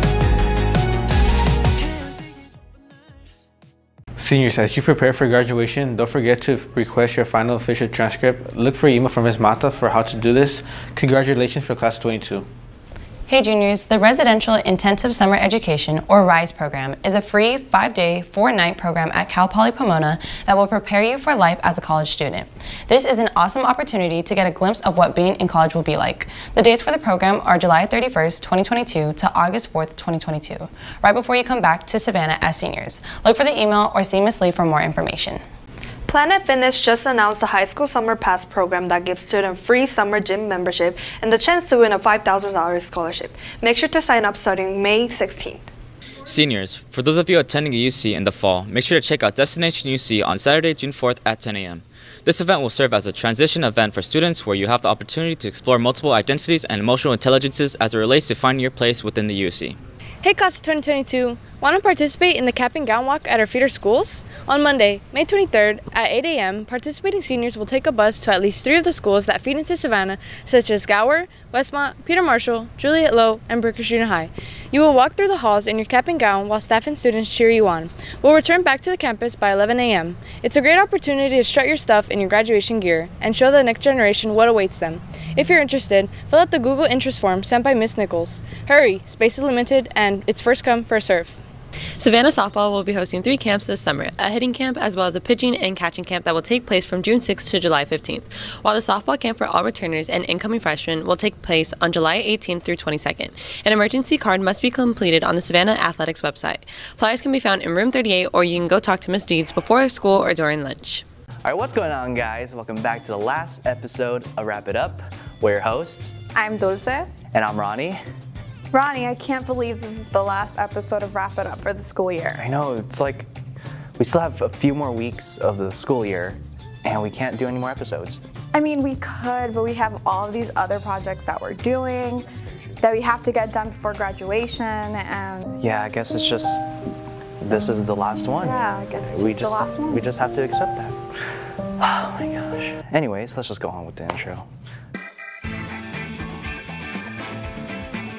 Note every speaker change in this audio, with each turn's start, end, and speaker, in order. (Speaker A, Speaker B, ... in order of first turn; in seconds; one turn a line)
Speaker A: 4.2-12.5
Speaker B: 13.3-35.4
Speaker C: 36.1-45.7
Speaker D: 46.3-59.8
Speaker E: 60.2-91.4
Speaker F: 92.0-111.0
Speaker G: 111.5-116.1
Speaker H: 116.3-117.1
Speaker G: 117.3-118.0
Speaker H: 118.7-122.4
Speaker G: 122.3-123.3
Speaker G: 124.0-128.2
Speaker H: 128.5-132.3
Speaker H: 132.8-135.6
Speaker G: 135.6-136.6
Speaker G: 137.4-141.0
Speaker H: 138.3-140.1
Speaker G: 141.8-144.4